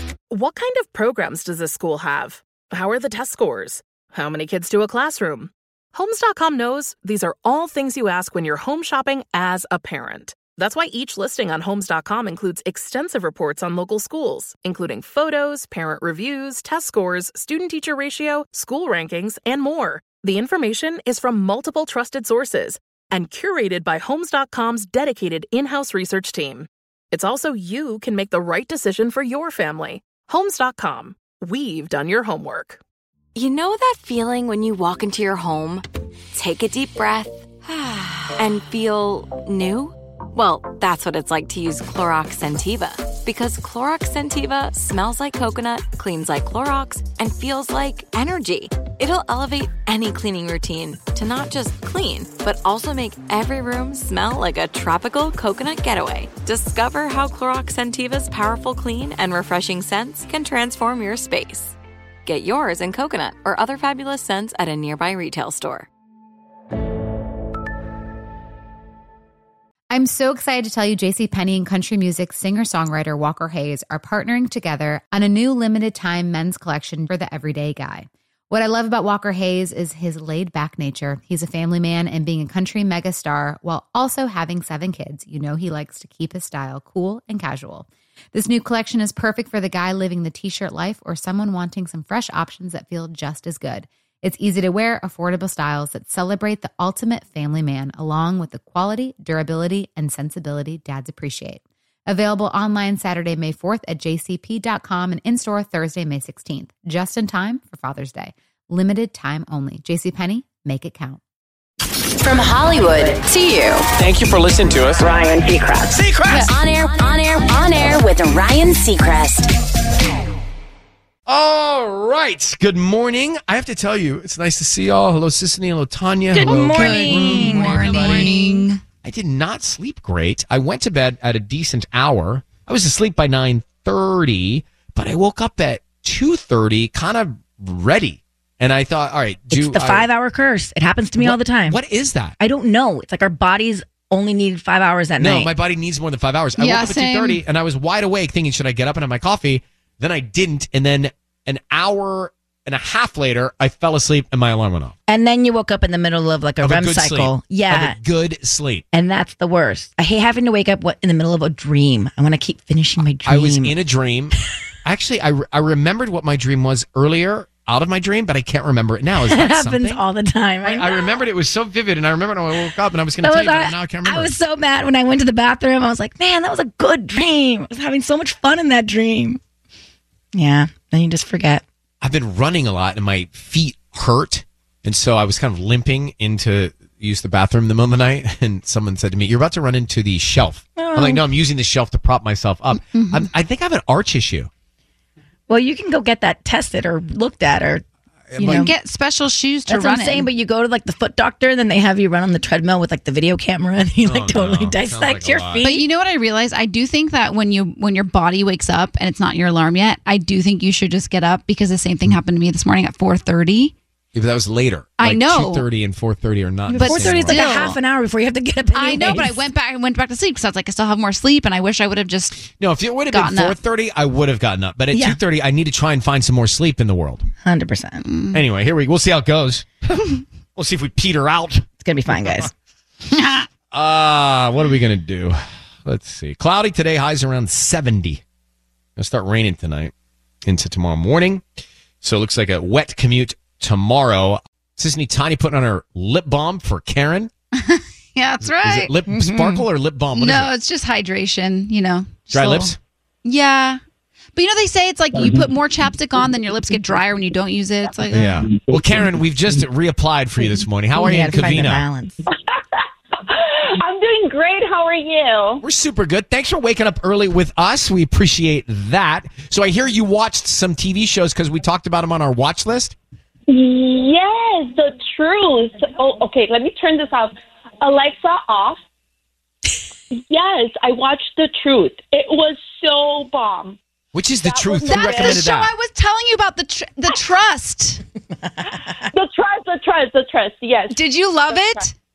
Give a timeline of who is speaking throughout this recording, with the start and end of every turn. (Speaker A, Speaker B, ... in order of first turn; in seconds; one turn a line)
Speaker A: 0.3-32.8
Speaker B: 33.3-35.8
Speaker B: 36.3-65.9
Speaker C: 69.9-111.2
Speaker D: 112.2-113.8
Speaker E: 114.0-115.1
Speaker D: 114.9-119.5
Speaker E: 115.9-116.5
Speaker E: 121.3-128.5
Speaker F: 126.3-128.6
Speaker G: 126.3-128.8
Speaker E: 129.0-140.1
Speaker F: 139.5-141.8
Speaker E: 141.2-142.3
Speaker F: 142.4-145.5
Speaker E: 145.2-154.9
Speaker G: 146.6-147.4
Speaker F: 155.1-158.0
Speaker E: 156.6-158.8
Speaker F: 158.9-163.7
Speaker E: 163.2-170.0
Speaker F: 169.2-171.1
Speaker E: 170.6-174.3
Speaker F: 173.2-179.4
Speaker F: 180.3-181.6
Speaker E: 182.0-194.5
Speaker F: 190.8-191.2
Speaker G: 192.8-193.3
Speaker F: 195.5-197.8
Speaker E: 198.3-198.7
Speaker F: 198.4-198.7
Speaker G: 198.5-200.3
Speaker F: 199.7-205.8
Speaker E: 204.0-205.6
Speaker G: 205.6-213.7
Speaker E: 214.1-217.4
Speaker G: 215.0-215.6
Speaker F: 216.7-219.5
Speaker G: 216.7-217.8
Speaker G: 218.7-222.4
Speaker E: 222.6-227.2
Speaker G: 223.1-223.6
Speaker F: 224.9-225.2
Speaker F: 227.4-228.0
Speaker G: 228.0-228.4
Speaker E: 228.3-230.0
Speaker E: 230.6-231.7
Speaker F: 231.8-232.5
Speaker E: 232.2-232.5
Speaker G: 233.1-233.5
Speaker E: 233.7-238.2
Speaker E: 239.0-239.9
Speaker E: 240.4-241.4
Speaker E: 242.0-247.3
Speaker G: 247.5-249.6
Speaker E: 248.5-250.5
Speaker G: 250.1-253.8
Speaker E: 252.3-252.8
Speaker G: 254.3-258.5
Speaker E: 258.1-261.8
Speaker F: 260.9-262.1
Speaker H: 262.2-262.5
Speaker H: 263.2-265.6
Speaker E: 265.6-272.9
Speaker H: 273.5-278.8
Speaker H: 280.3-283.8
Speaker E: 284.1-285.7
Speaker H: 284.4-285.4
Speaker G: 284.9-288.0
Speaker F: 288.4-288.7
Speaker H: 288.8-291.9
Speaker G: 290.9-291.9